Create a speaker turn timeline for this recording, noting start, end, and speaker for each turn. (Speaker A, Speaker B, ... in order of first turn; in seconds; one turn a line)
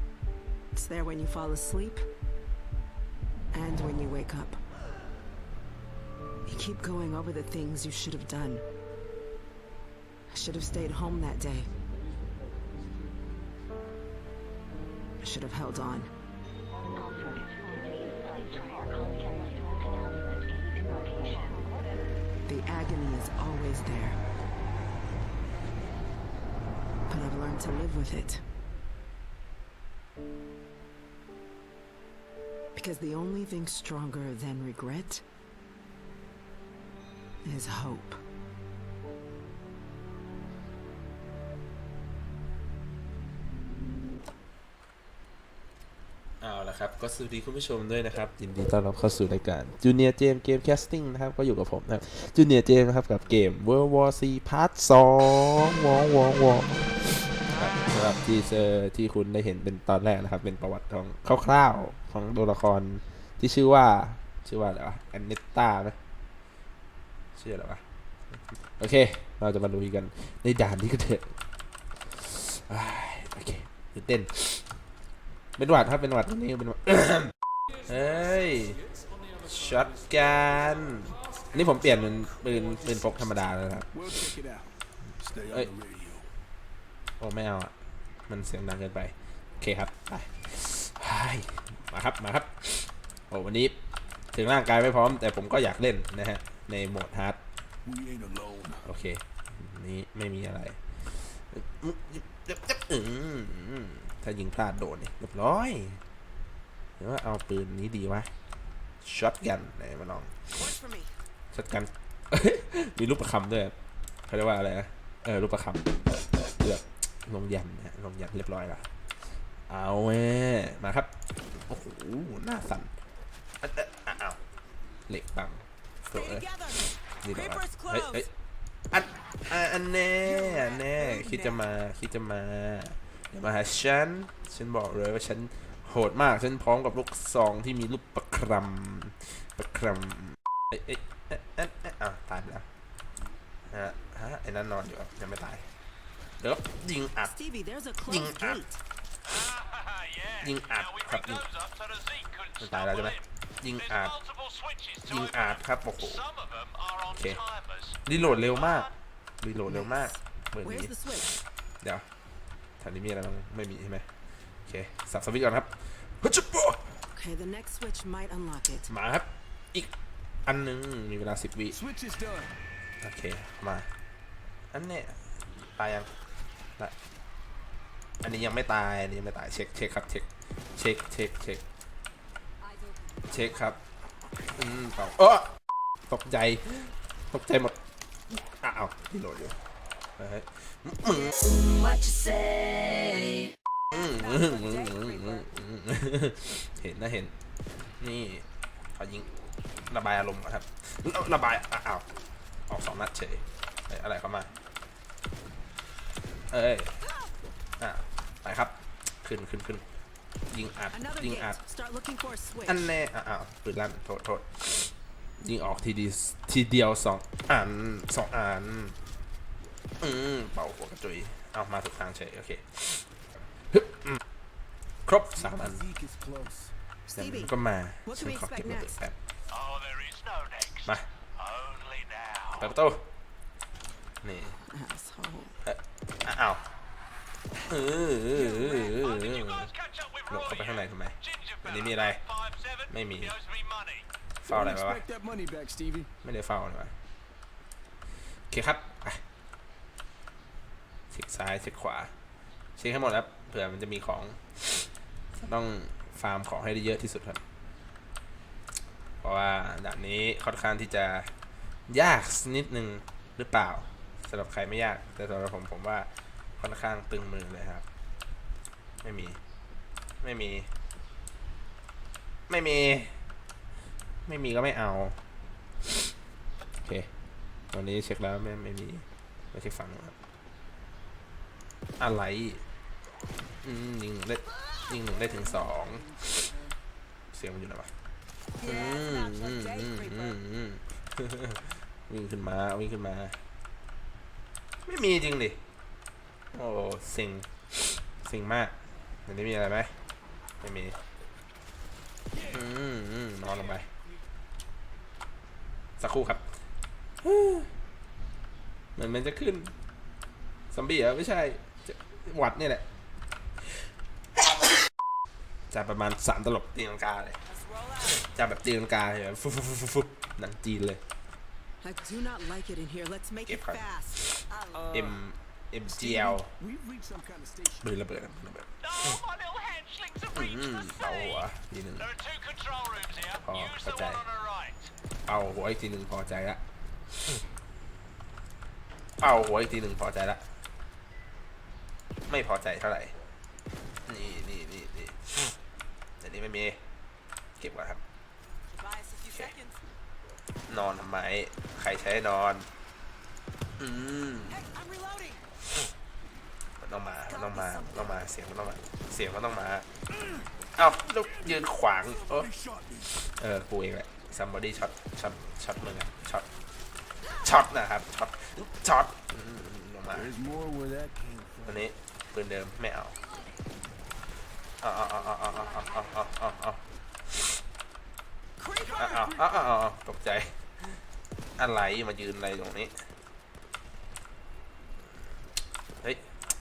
Speaker A: 0.7-2.0
Speaker A: 3.5-4.6
Speaker A: 6.5-8.6
Speaker A: 10.3-11.7
Speaker A: 15.2-16.1
Speaker A: 22.4-24.2
Speaker A: 27.1-28.4
Speaker A: 32.7-35.2
Speaker A: 37.4-38.2
Speaker B: 46.4-66.0
Speaker B: 67.3-71.3
Speaker B: 72.1-74.6
Speaker B: 75.6-77.3
Speaker B: 77.8-78.8
Speaker C: 77.9-79.5
Speaker B: 79.4-83.9
Speaker C: 82.8-83.0
Speaker C: 83.9-86.3
Speaker B: 85.4-85.7
Speaker B: 87.2-87.7
Speaker B: 88.3-93.8
Speaker B: 94.3-97.4
Speaker C: 97.8-98.9
Speaker B: 98.8-106.0
Speaker B: 107.0-108.3
Speaker B: 109.0-110.5
Speaker A: 110.5-111.1
Speaker B: 111.5-113.7
Speaker B: 114.3-118.9
Speaker B: 119.7-121.1
Speaker B: 121.7-122.9
Speaker B: 123.6-124.4
Speaker B: 125.1-126.5
Speaker A: 126.1-128.3
Speaker B: 127.2-128.3
Speaker B: 128.9-142.6
Speaker A: 130.2-131.7
Speaker B: 143.7-145.7
Speaker B: 146.4-147.3
Speaker A: 147.2-148.8
Speaker B: 148.1-148.6
Speaker D: 149.2-158.9
Speaker B: 150.4-151.4
Speaker B: 152.6-154.1
Speaker B: 155.1-156.2
Speaker B: 157.1-157.4
Speaker B: 158.1-158.9
Speaker B: 159.4-160.9
Speaker A: 159.7-161.3
Speaker B: 162.8-164.1
Speaker B: 164.7-167.0
Speaker A: 167.1-168.9
Speaker B: 168.9-169.9
Speaker B: 170.4-171.8
Speaker C: 171.7-172.5
Speaker B: 173.0-173.8
Speaker B: 174.7-175.2
Speaker B: 175.8-176.1
Speaker B: 178.2-181.6
Speaker E: 182.6-183.8
Speaker B: 183.3-183.8
Speaker B: 184.6-187.8
Speaker B: 188.3-189.6
Speaker B: 190.2-191.3
Speaker E: 191.3-193.5
Speaker A: 193.9-195.5
Speaker B: 193.9-197.3
Speaker B: 198.0-199.3
Speaker B: 199.9-202.0
Speaker B: 202.7-204.5
Speaker B: 206.5-206.9
Speaker A: 207.0-207.3
Speaker B: 207.8-209.8
Speaker B: 210.5-211.6
Speaker A: 210.9-212.9
Speaker B: 212.7-219.0
Speaker B: 220.0-223.1
Speaker B: 223.7-224.2
Speaker B: 225.1-225.8
Speaker C: 225.3-226.7
Speaker A: 227.1-229.0
Speaker B: 227.2-229.2
Speaker D: 229.5-232.7
Speaker B: 232.6-233.1
Speaker B: 234.2-234.6
Speaker A: 234.6-235.6
Speaker B: 235.6-236.6
Speaker B: 237.7-239.7
Speaker A: 238.3-238.9
Speaker D: 238.7-244.1
Speaker B: 240.3-242.2
Speaker B: 242.9-243.3
Speaker B: 244.4-245.0
Speaker C: 244.5-246.1
Speaker B: 246.2-246.9
Speaker B: 248.5-249.2
Speaker B: 251.1-252.1
Speaker B: 252.8-257.4
Speaker B: 259.2-261.3
Speaker B: 261.9-267.8
Speaker B: 269.0-269.4
Speaker B: 270.2-270.7
Speaker B: 272.5-273.2
Speaker B: 274.2-275.2
Speaker B: 276.8-277.1
Speaker B: 277.7-280.1
Speaker B: 282.0-282.6
Speaker B: 283.6-286.5
Speaker C: 284.9-286.8
Speaker B: 287.3-287.9
Speaker A: 288.6-290.4
Speaker B: 288.6-293.4
Speaker B: 294.8-295.6
Speaker B: 296.5-298.7
Speaker B: 299.2-299.9
Speaker B: 300.6-301.0
Speaker C: 302.3-302.6
Speaker B: 302.5-303.9
Speaker C: 303.4-304.2
Speaker B: 306.0-306.5
Speaker B: 307.2-307.7
Speaker B: 308.9-309.7
Speaker B: 310.7-312.8
Speaker B: 315.7-317.4
Speaker A: 317.4-318.2
Speaker B: 318.0-321.0
Speaker A: 321.8-325.1
Speaker B: 323.5-324.4
Speaker C: 324.7-325.2
Speaker B: 324.9-326.5
Speaker C: 326.0-327.9
Speaker B: 327.8-329.2
Speaker D: 328.8-334.9
Speaker B: 330.3-332.1
Speaker B: 333.4-334.2
Speaker B: 335.3-336.6
Speaker B: 339.2-340.4
Speaker B: 342.3-343.1
Speaker B: 344.1-345.6
Speaker B: 346.2-346.8
Speaker B: 347.6-348.0
Speaker A: 348.7-349.8
Speaker B: 350.7-352.7
Speaker B: 353.8-354.6
Speaker A: 354.5-355.4
Speaker B: 356.8-359.9
Speaker A: 357.3-358.3
Speaker C: 360.1-363.2
Speaker B: 360.8-362.5
Speaker B: 363.2-366.5
Speaker A: 367.2-367.5
Speaker B: 367.4-370.3
Speaker C: 370.1-371.9
Speaker B: 371.6-373.1
Speaker E: 373.1-373.6
Speaker B: 374.8-377.6
Speaker A: 375.0-376.3
Speaker A: 378.6-379.3
Speaker C: 378.8-379.7
Speaker B: 378.9-380.6
Speaker B: 381.6-382.9
Speaker B: 386.0-386.3